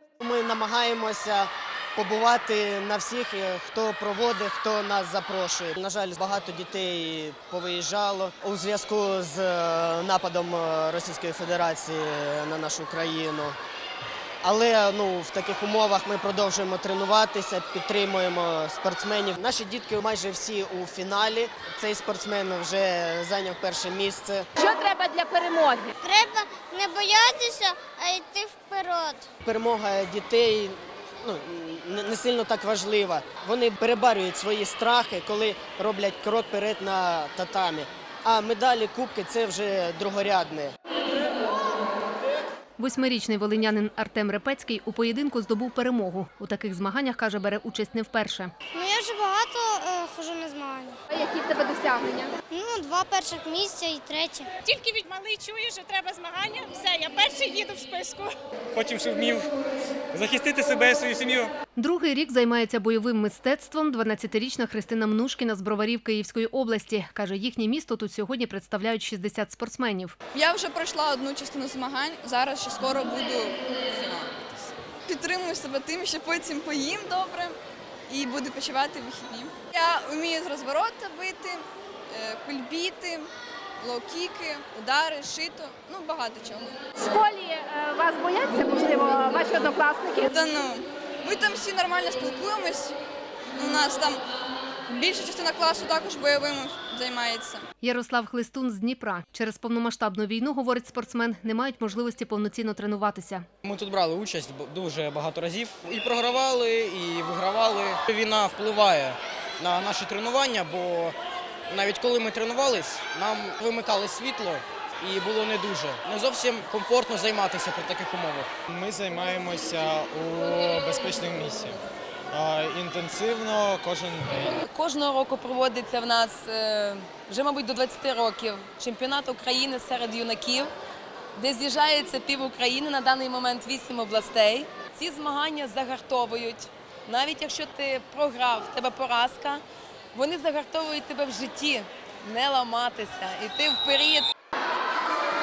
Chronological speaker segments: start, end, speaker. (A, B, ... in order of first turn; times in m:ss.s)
0:00.2-0:13.6 A
0:14.4-0:24.4 A
0:24.6-0:25.9 B
0:26.0-0:29.2 C
0:29.4-0:40.7 A
0:42.8-0:48.5 D
0:48.7-0:51.0 C
0:51.1-0:52.3 B
0:52.5-0:54.5 C
0:54.6-0:58.3 E
1:01.8-1:10.1 D
1:10.3-1:17.6 F
1:18.1-1:23.3 F
1:23.8-1:26.8 F
1:27.0-1:30.3 B
1:30.3-1:32.9 F
1:33.6-1:34.2 F
1:34.9-1:37.6 F
1:37.8-1:43.4 D
1:43.6-1:51.2 G
1:51.7-1:58.5 G
1:58.7-2:01.8 H
2:02.3-2:04.6 H
2:04.7-2:10.7 I
2:11.4-2:19.6 I
2:20.1-2:24.3 I